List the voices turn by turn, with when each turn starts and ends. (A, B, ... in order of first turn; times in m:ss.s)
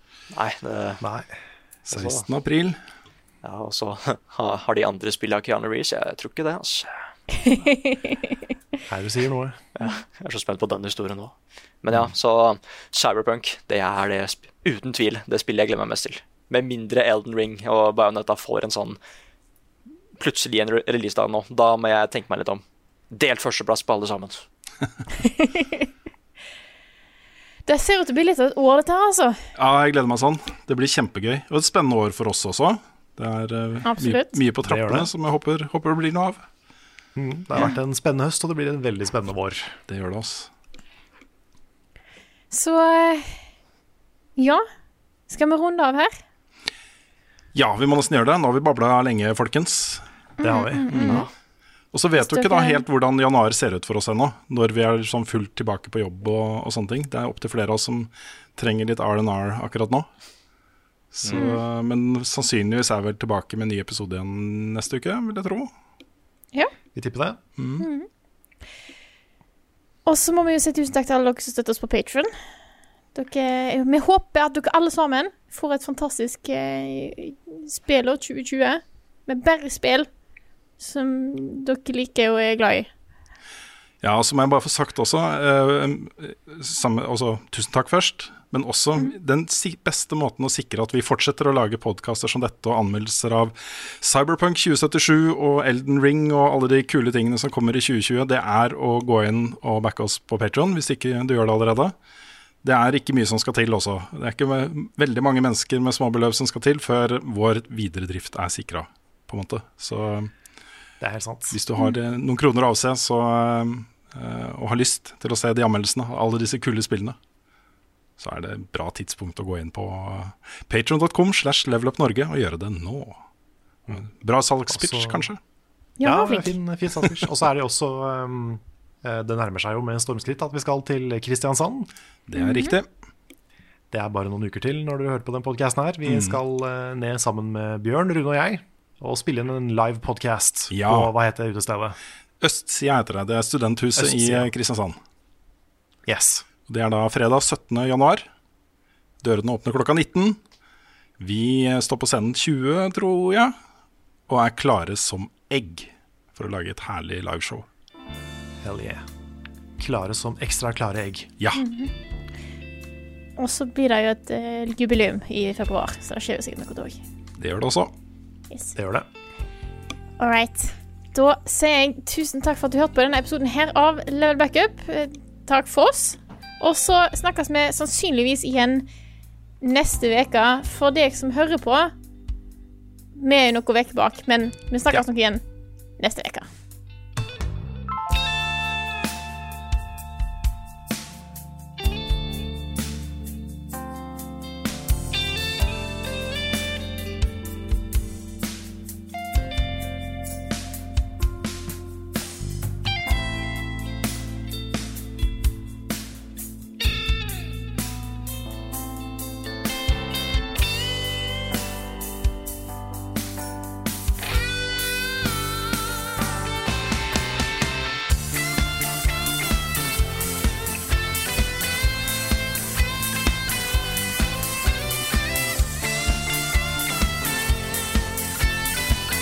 0:00.3-0:01.0 A
0:01.0-0:01.3 B
0:01.9-0:02.8 C
0:01.9-0:02.2 A
0:03.4-0:06.9 A
0:07.4-0:08.1 D
0:08.9-0:09.6 B
0:09.7-0:19.0 A
0:20.2-0:24.4 A
0:25.2-0:25.8 D
0:27.6-0:29.4 D
0:29.6-0:36.4 C
0:33.8-0:34.4 D
0:34.6-0:35.1 B
0:37.2-0:39.8 B
0:39.9-0:40.5 C
0:42.5-0:43.4 D
0:44.4-0:44.6 D
0:45.3-0:46.2 D
0:47.5-0:50.0 C
0:50.4-0:51.3 D
0:50.4-0:51.2 B
0:50.9-0:51.2 C
0:51.9-1:00.1 C
0:52.2-0:52.8 D
1:01.1-1:05.7 C
1:01.4-1:01.6 D
1:06.9-1:07.4 B
1:07.6-1:07.8 C
1:07.8-1:08.1 D
1:10.0-1:12.3 D
1:13.1-1:20.1 D
1:20.8-1:22.9 D
1:24.0-1:41.9 C
1:42.6-1:50.3 C
1:51.0-1:51.6 B
1:51.5-1:57.2 C
1:58.2-2:03.2 C
2:03.9-2:05.4 C
2:04.7-2:05.3 B
2:06.0-2:06.6 D
2:06.0-2:11.9 B
2:12.3-2:12.9 C
2:12.4-2:12.8 D
2:13.9-2:22.0 B
2:16.0-2:16.4 C
2:20.7-2:21.1 C
2:22.4-2:25.0 C
2:24.0-2:24.5 B
2:26.0-2:26.4 B
2:26.7-2:28.3 C
2:29.2-2:30.4 C
2:31.2-2:33.5 C
2:34.3-2:37.6 C
2:38.6-2:39.0 B
2:39.8-2:41.3 B
2:41.5-2:41.9 D
2:43.4-2:47.0 D
2:47.4-2:47.9 C
2:48.7-2:49.1 B
2:50.2-2:58.9 D
2:59.6-3:01.9 D
3:03.2-3:05.4 D
3:06.0-3:06.5 D